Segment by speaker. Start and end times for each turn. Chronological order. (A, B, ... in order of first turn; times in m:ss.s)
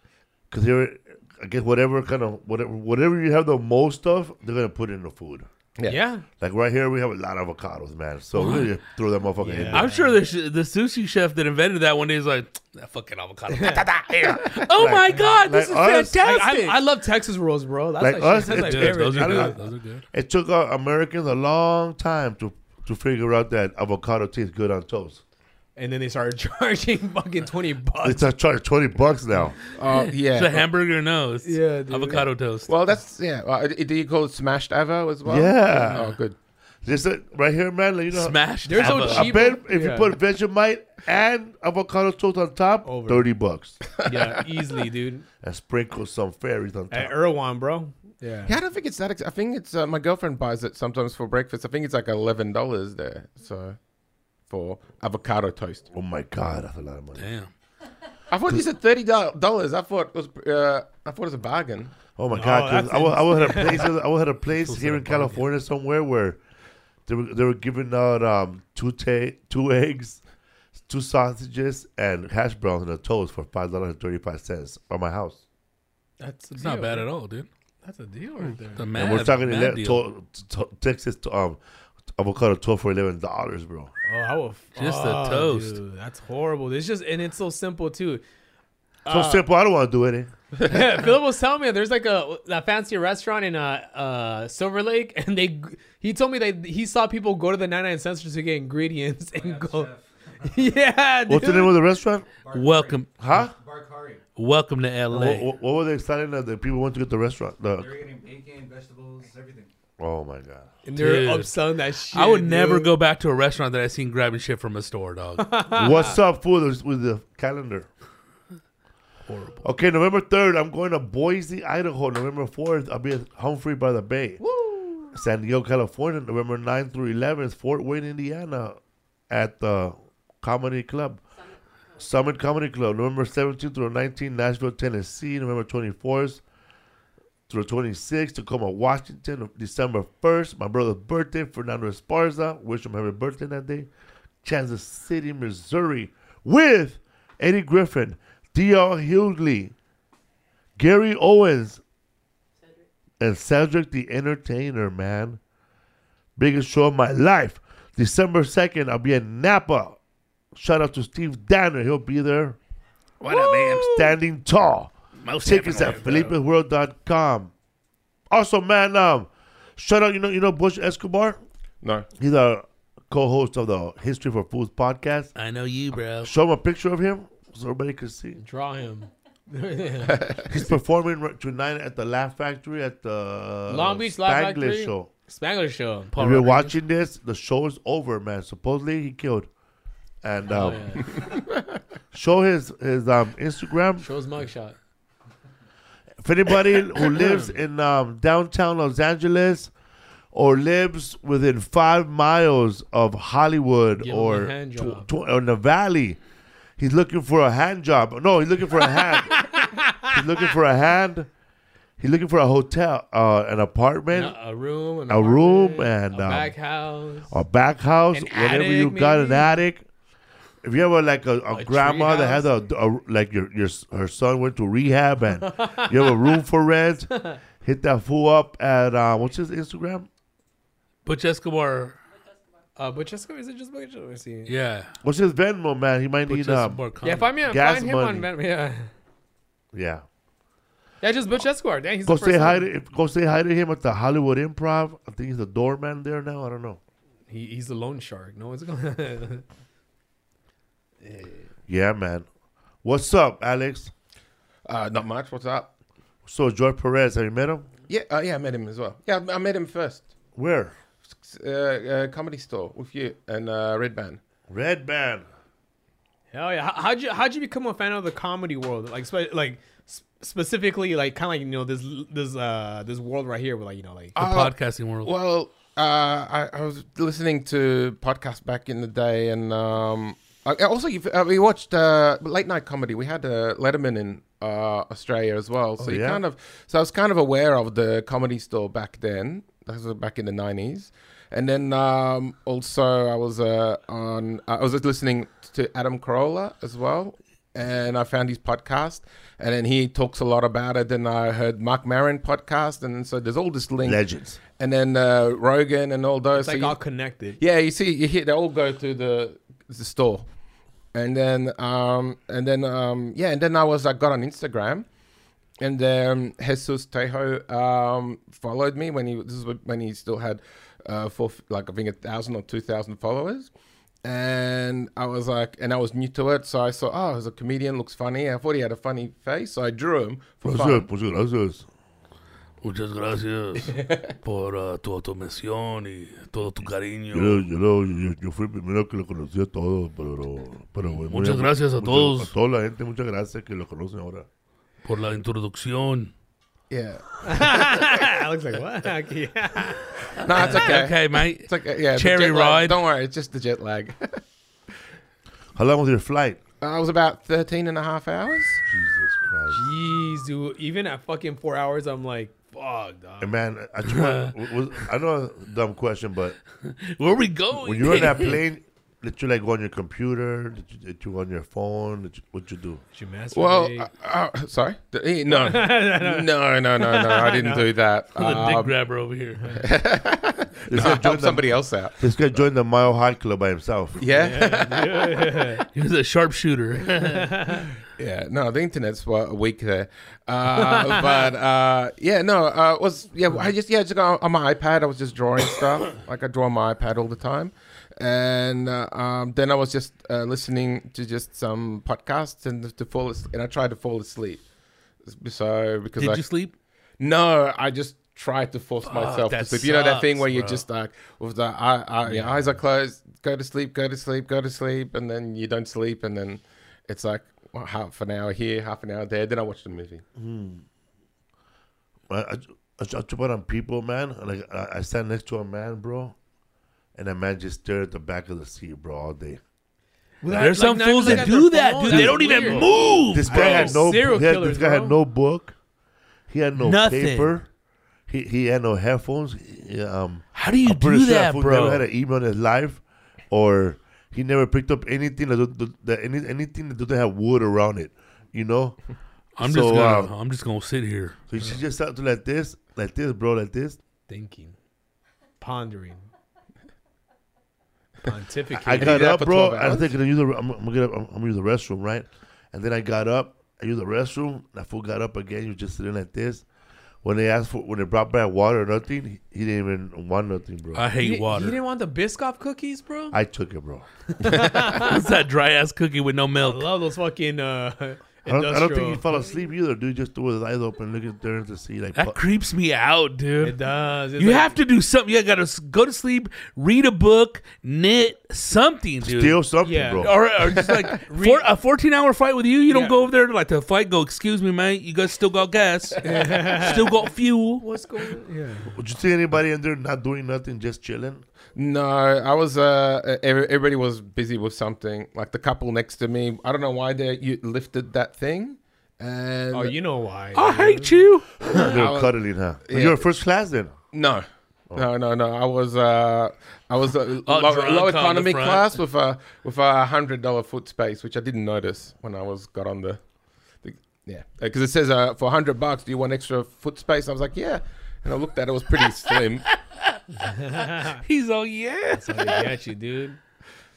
0:00.5-0:05.5 A
0:05.8-0:06.2 B
0:06.4-0:09.9 A
0:08.3-0:08.7 C
0:09.4-0:10.2 B
0:09.7-0:16.8 C
0:13.5-0:13.8 B
0:14.7-0:16.2 A
0:16.2-0:19.6 B
0:18.0-0:19.6 A
0:18.4-0:20.0 C
0:20.1-0:25.2 A
0:25.8-0:28.3 B
0:28.0-0:29.6 A
0:29.7-0:30.6 D
0:30.1-0:32.7 C
0:31.4-0:32.3 B
0:32.7-0:36.4 D
0:35.2-0:36.1 A
0:36.8-0:43.8 A
0:38.1-0:39.4 C
0:38.6-0:40.1 B
0:42.8-0:43.3 B
0:44.0-0:45.2 B
0:45.4-0:47.2 A
0:46.9-0:48.6 B
0:48.4-0:53.8 D
0:54.5-0:55.8 D
0:55.9-0:57.2 A
0:57.2-0:57.5 C
0:58.3-1:01.9 D
1:02.2-1:06.4 A
1:02.3-1:03.9 B
1:04.5-1:05.4 C
1:07.1-1:10.2 A
1:10.9-1:15.4 A
1:16.2-1:17.1 B
1:16.6-1:17.5 C
1:17.8-1:18.8 B
1:18.8-1:20.0 C
1:18.9-1:21.6 A
1:22.2-1:23.9 A
1:24.0-1:28.2 B
1:24.8-1:25.8 C
1:29.0-1:29.4 B
1:29.1-1:30.3 A
1:30.6-1:39.9 B
1:39.3-1:40.8 E
1:40.4-1:41.8 B
1:41.3-1:42.3 A
1:42.3-1:44.2 E
1:42.5-1:43.1 C
1:43.2-1:43.5 A
1:44.4-1:45.5 C
1:45.1-1:48.0 A
1:47.7-1:49.7 E
1:50.0-1:50.7 A
1:50.8-1:52.9 B
1:50.9-1:51.6 C
1:52.1-1:55.6 C
1:55.4-1:56.2 B
1:55.7-1:57.9 A
1:59.3-1:59.6 C
1:59.6-2:04.4 A
2:04.4-2:05.2 B
2:05.1-2:08.8 A
2:09.3-2:11.2 A
2:11.3-2:12.3 F
2:12.0-2:16.4 A
2:17.5-2:23.9 A
2:24.4-2:29.7 A
2:30.8-2:31.8 A
2:32.6-2:32.9 F
2:33.2-2:35.4 A
2:36.4-2:40.0 A
2:40.5-2:42.6 A
2:43.2-2:44.1 C
2:43.3-2:43.7 B
2:43.7-2:47.5 A
2:45.2-2:46.3 C
2:48.3-2:51.4 A
2:51.8-2:52.1 D
2:52.2-2:55.3 A
2:55.4-2:56.3 C
2:56.2-2:58.4 A
2:58.4-3:00.6 B
3:00.4-3:05.1 A
3:03.7-3:06.5 B
3:06.1-3:06.7 C
3:06.2-3:09.5 A
3:10.2-3:11.2 A
3:10.5-3:11.4 B
3:12.1-3:14.1 A
3:14.0-3:14.8 B
3:16.2-3:19.7 A
3:17.1-3:17.5 B
3:20.3-3:26.2 A
3:24.0-3:25.1 B
3:26.8-3:31.3 A
3:29.2-3:30.2 B
3:32.0-3:34.4 A
3:34.1-3:37.4 B
3:35.1-3:36.5 A
3:37.3-3:39.8 A
3:38.1-3:39.6 B
3:40.6-3:47.1 A
3:41.6-3:42.4 B
3:45.4-3:46.4 B
3:47.6-3:50.1 A
3:51.0-3:52.0 C
3:52.1-3:52.7 F
3:52.8-3:54.5 B
3:54.4-3:54.9 C
3:55.0-3:56.8 A
3:56.3-3:57.3 C
3:57.0-3:58.9 B
3:57.4-3:58.3 A
3:59.7-4:00.0 A
4:01.0-4:02.6 B
4:02.0-4:06.8 A
4:07.3-4:09.4 B
4:11.0-4:11.5 B
4:11.7-4:12.2 A
4:12.8-4:13.9 A
4:14.6-4:15.7 D
4:16.2-4:17.7 A
4:17.9-4:20.1 D
4:20.4-4:20.7 A
4:21.2-4:24.2 D
4:24.5-4:25.2 A
4:26.3-4:34.2 B
4:34.2-4:35.1 C
4:34.2-5:04.0 D
4:45.8-4:46.2 A
5:03.8-5:04.4 A
5:04.6-5:06.8 D
5:06.4-5:07.4 B
5:07.4-5:10.2 D
5:10.9-5:14.8 D
5:15.6-5:23.5 D
5:24.0-5:30.9 D
5:30.4-5:31.6 A
5:32.6-5:37.4 C
5:37.1-5:44.3 A
5:41.0-5:42.3 C
5:44.8-5:46.1 C
5:46.7-5:47.8 D
5:47.2-5:50.0 B
5:50.2-5:54.2 D
5:50.3-5:52.8 C
5:55.5-5:56.4 A
5:56.6-5:58.6 D
5:58.6-5:59.7 A
5:59.5-6:03.3 B
6:03.2-6:06.4 A
6:03.9-6:04.3 C
6:06.6-6:08.4 C
6:07.5-6:12.8 A
6:12.9-6:13.9 B
6:13.3-6:18.8 D
6:15.3-6:17.7 B
6:18.2-6:19.6 C
6:19.6-6:22.0 D
6:20.6-6:24.0 A
6:24.0-6:25.4 D
6:24.1-6:25.6 B
6:25.7-6:27.3 C
6:27.0-6:27.6 B
6:28.0-6:44.4 D
6:30.6-6:31.2 B
6:45.1-6:46.3 D
6:46.0-6:46.5 C
6:47.0-7:00.0 D
6:48.8-6:50.6 C
7:00.2-7:00.6 A
7:02.1-7:06.1 A
7:06.9-7:09.4 A
7:10.2-7:15.0 B
7:10.3-7:13.9 C
7:11.0-7:11.3 A
7:11.9-7:15.6 A
7:16.3-7:17.5 A
7:16.6-7:17.3 C
7:18.1-7:28.8 A
7:20.3-7:21.8 C
7:29.4-7:31.2 C
7:29.4-7:30.1 A
7:31.3-7:33.8 A
7:34.1-7:34.6 B
7:35.4-7:36.0 B
7:38.0-7:39.0 B
7:38.5-7:46.4 A
7:38.7-7:39.9 D
7:47.0-7:50.8 A
7:50.7-7:51.6 C
7:51.0-7:53.2 B
7:53.1-7:53.9 A
7:54.2-7:55.1 B
7:54.4-7:56.7 C
7:56.4-7:59.0 B
7:58.2-8:02.2 A
8:01.9-8:03.6 C
8:03.4-8:04.6 B
8:04.2-8:17.6 C
8:09.0-8:10.1 A
8:09.6-8:10.2 B
8:11.1-8:11.4 B
8:12.7-8:13.0 B
8:16.0-8:17.1 B
8:17.6-8:18.8 B
8:18.7-8:21.2 A
8:21.6-8:29.8 D
8:29.5-8:31.0 B
8:30.3-8:31.4 C
8:31.5-8:33.7 A
8:31.5-8:32.1 D
8:32.6-8:33.0 D
8:33.9-8:43.0 D
8:37.2-8:38.7 C
8:43.6-8:49.4 D
8:50.2-8:51.0 B
8:50.5-8:52.5 C
8:51.9-8:53.2 B